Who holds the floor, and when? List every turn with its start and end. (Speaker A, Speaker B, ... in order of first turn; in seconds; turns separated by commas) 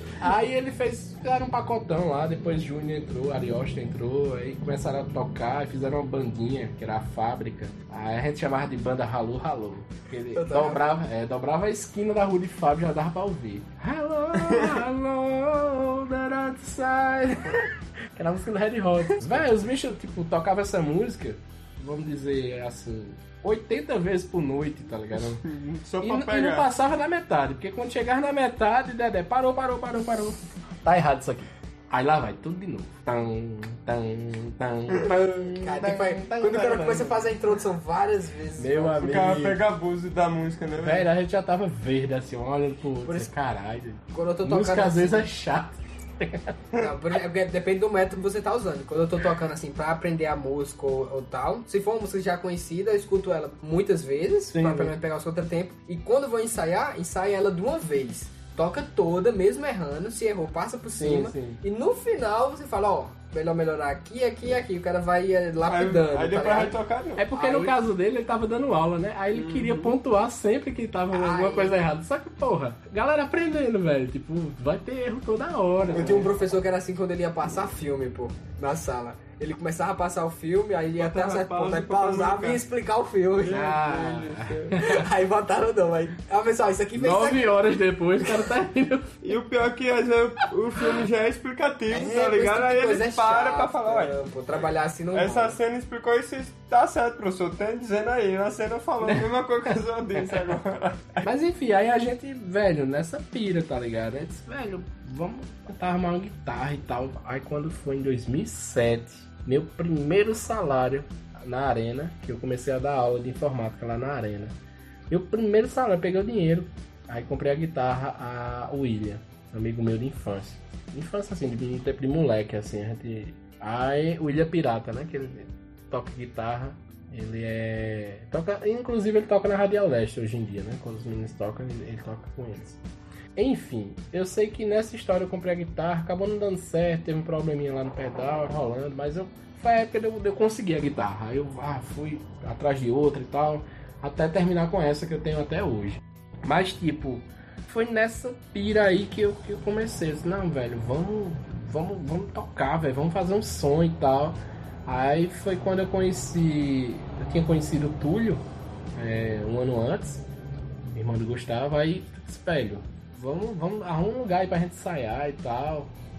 Speaker A: 0.2-25.4, Speaker B: 10.3-10.8, Speaker C: 25.4-26.7, Speaker A: 26.0-37.3, Speaker B: 35.0-39.0, Speaker A: 38.6-39.6, Speaker C: 39.0-41.1, Speaker A: 40.8-46.5, Speaker B: 43.0-43.3, Speaker B: 44.1-45.2, Speaker B: 46.8-66.8, Speaker A: 54.5-54.9, Speaker A: 60.9-61.6, Speaker C: 65.7-67.2, Speaker A: 67.2-76.4, Speaker B: 67.3-67.7, Speaker C: 69.3-69.9, Speaker B: 71.1-71.7, Speaker C: 75.9-76.4, Speaker B: 75.9-83.7, Speaker C: 81.0-82.6, Speaker C: 83.4-84.8, Speaker A: 83.5-85.0, Speaker B: 84.7-87.5, Speaker A: 87.0-89.3, Speaker C: 89.2-94.1, Speaker B: 91.9-95.6, Speaker C: 95.1-101.2, Speaker A: 99.0-100.5, Speaker A: 101.2-114.5, Speaker A: 115.1-132.8, Speaker A: 133.3-158.4, Speaker A: 158.9-160.2, Speaker A: 160.9-165.9